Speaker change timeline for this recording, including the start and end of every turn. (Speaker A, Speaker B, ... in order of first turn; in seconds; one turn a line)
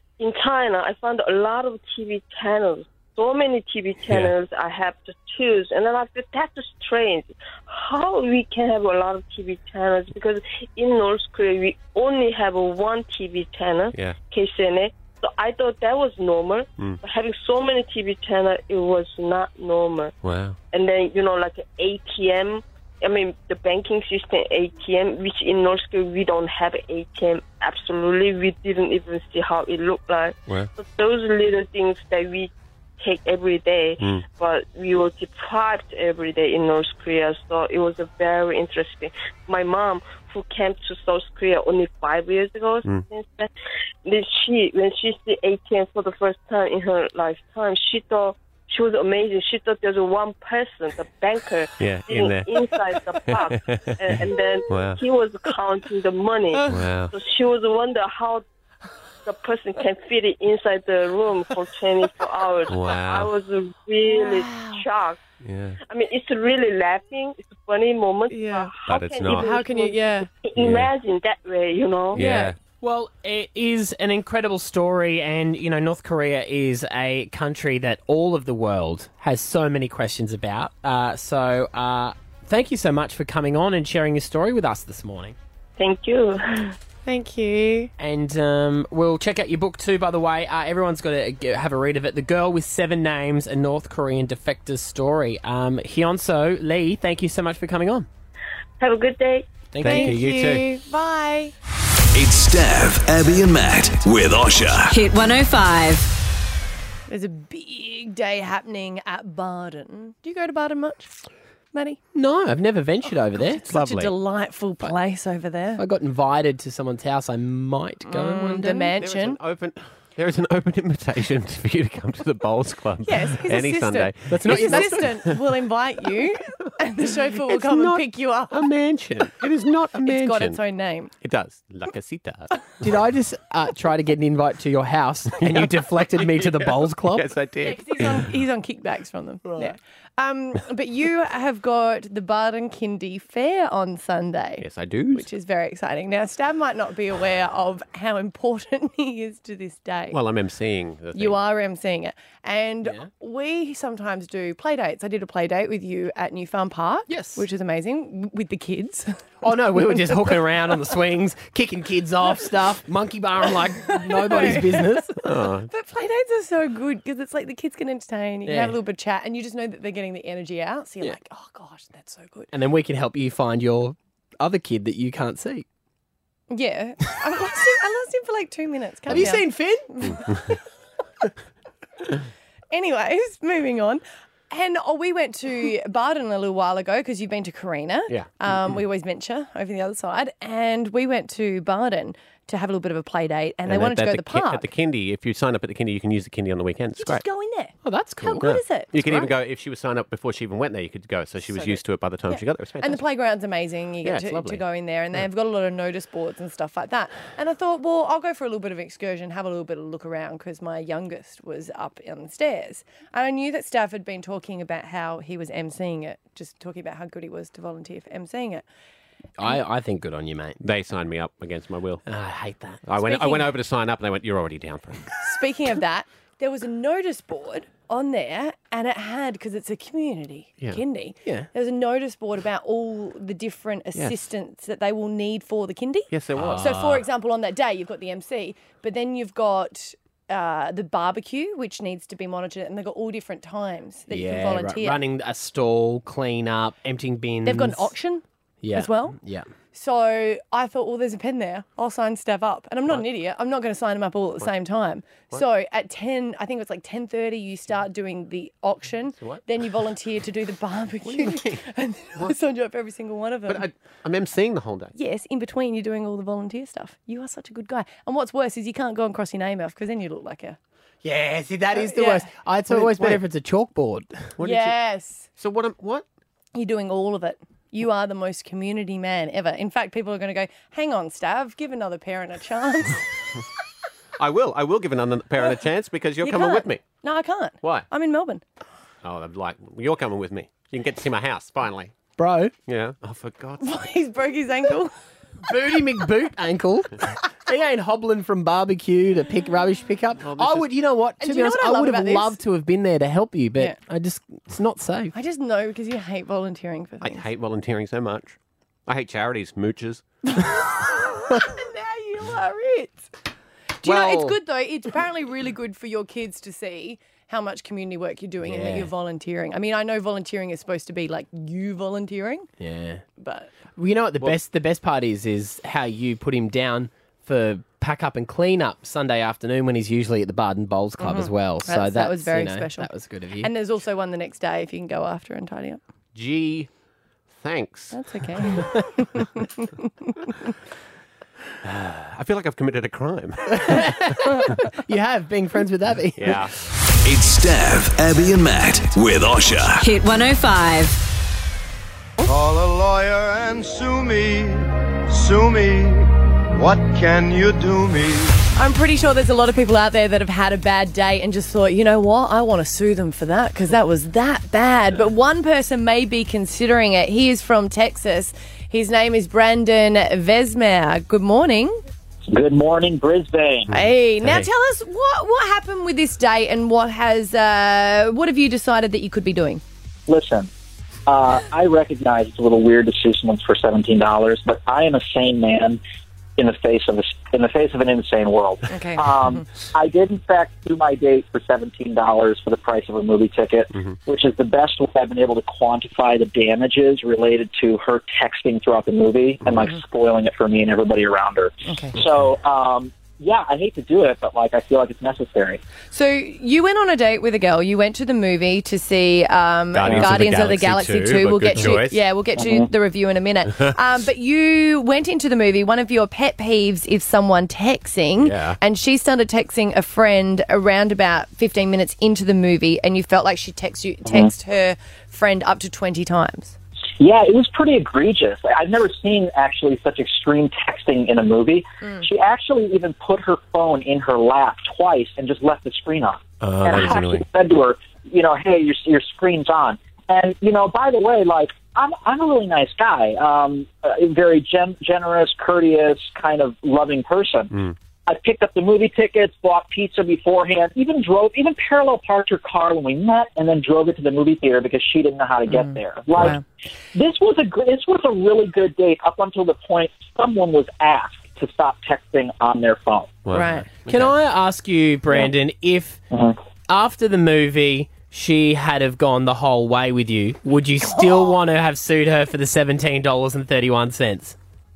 Speaker A: 0.2-20.1
Speaker B: 4.1-4.3
Speaker B: 20.2-20.6
Speaker A: 20.7-43.5
Speaker A: 44.0-58.4
Speaker B: 51.8-52.6
Speaker B: 53.3-55.0
Speaker B: 56.7-57.1
Speaker A: 59.2-65.2
Speaker B: 62.7-63.3
Speaker C: 64.1-64.8
Speaker B: 65.4-65.8
Speaker A: 65.9-72.2
Speaker C: 68.3-68.7
Speaker B: 68.9-69.6
Speaker C: 69.3-70.3
Speaker B: 70.6-70.9
Speaker B: 72.1-72.6
Speaker C: 72.2-72.5
Speaker D: 72.8-85.4
Speaker A: 85.8-86.8
Speaker C: 87.0-87.9
Speaker D: 88.0-98.1
Speaker A: 98.8-99.5
Speaker D: 99.7-100.2
Speaker B: 99.8-100.7
Speaker C: 99.8-101.5
Speaker E: 102.1-105.0
Speaker F: 104.9-106.1
Speaker C: 107.1-111.2
Speaker C: 111.7-112.0
Speaker D: 112.2-113.7
Speaker C: 113.6-115.8
Speaker B: 113.7-114.1
Speaker D: 115.8-118.9
Speaker C: 118.1-119.4
Speaker B: 119.0-125.4
Speaker C: 123.0-128.6
Speaker D: 124.3-125.1
Speaker B: 127.5-130.6
Speaker C: 130.0-131.1
Speaker B: 131.2-132.7
Speaker D: 132.8-137.3
Speaker B: 135.4-138.3
Speaker C: 137.6-150.2
Speaker B: 144.6-145.3
Speaker B: 150.1-151.4
Speaker C: 151.1-159.2
Speaker D: 152.8-153.1
Speaker D: 157.1-157.4
Speaker D: 159.4-165.1
Speaker C: 159.9-160.1
Speaker C: 163.8-165.1
Speaker B: 165.2-165.7
Speaker C: 165.7-172.5
Speaker D: 168.5-168.8
Speaker D: 172.5-175.7
Speaker C: 176.5-180.6
Speaker D: 179.1-180.1
Speaker C: 182.7-194.7
Speaker B: 193.7-197.2
Speaker C: 197.0-199.3
Speaker D: 197.8-198.5
Speaker B: 198.4-203.0
Speaker C: 201.5-218.6
Speaker B: 204.0-204.6
Speaker D: 219.4-220.6
Speaker B: 220.6-222.1
Speaker D: 222.1-222.8
Speaker B: 222.8-225.1
Speaker C: 223.0-223.5
Speaker C: 225.2-245.0
Speaker B: 233.9-234.2
Speaker B: 236.1-237.0
Speaker D: 236.4-236.8
Speaker D: 244.1-247.9
Speaker C: 247.4-249.2
Speaker D: 248.6-249.5
Speaker C: 249.7-263.7
Speaker B: 259.2-259.4
Speaker B: 261.0-262.4
Speaker B: 263.5-264.9
Speaker C: 264.9-270.6
Speaker D: 271.0-274.3
Speaker C: 271.7-272.3
Speaker B: 272.7-273.2
Speaker B: 274.4-274.8
Speaker C: 274.4-275.3
Speaker B: 275.4-276.1
Speaker C: 276.5-283.1
Speaker B: 284.2-286.8
Speaker C: 286.2-288.4
Speaker B: 289.0-292.0
Speaker D: 292.2-292.5
Speaker B: 292.7-293.8
Speaker C: 293.6-294.9
Speaker D: 295.5-305.1
Speaker B: 300.2-300.7
Speaker C: 301.2-302.4
Speaker C: 305.1-307.3
Speaker B: 307.0-310.1
Speaker C: 310.3-313.1
Speaker C: 313.8-322.5
Speaker D: 313.9-314.4
Speaker D: 318.4-318.9
Speaker D: 322.6-323.0
Speaker C: 323.2-323.5
Speaker D: 323.8-333.5
Speaker C: 331.0-335.8
Speaker B: 336.1-336.7
Speaker B: 337.3-338.0
Speaker C: 337.9-340.5
Speaker B: 341.6-344.0
Speaker D: 343.6-346.5
Speaker B: 346.2-346.6
Speaker E: 347.0-349.8
Speaker F: 349.8-351.0
Speaker G: 352.2-358.4
Speaker C: 358.6-371.8
Speaker H: 372.3-373.7
Speaker C: 373.7-379.6
Speaker H: 380.1-380.5
Speaker H: 381.1-385.8
Speaker H: 386.4-405.6
Speaker C: 388.7-389.5
Speaker C: 401.7-402.0
Speaker C: 405.9-426.6
Speaker B: 409.7-412.0
Speaker H: 412.4-412.7
Speaker B: 418.2-418.6
Speaker H: 427.0-456.4
Speaker B: 436.4-437.3
Speaker C: 455.5-456.4
Speaker H: 456.9-463.2
Speaker B: 463.3-464.1
Speaker C: 463.3-463.7
Speaker D: 463.9-466.0
Speaker D: 466.7-474.4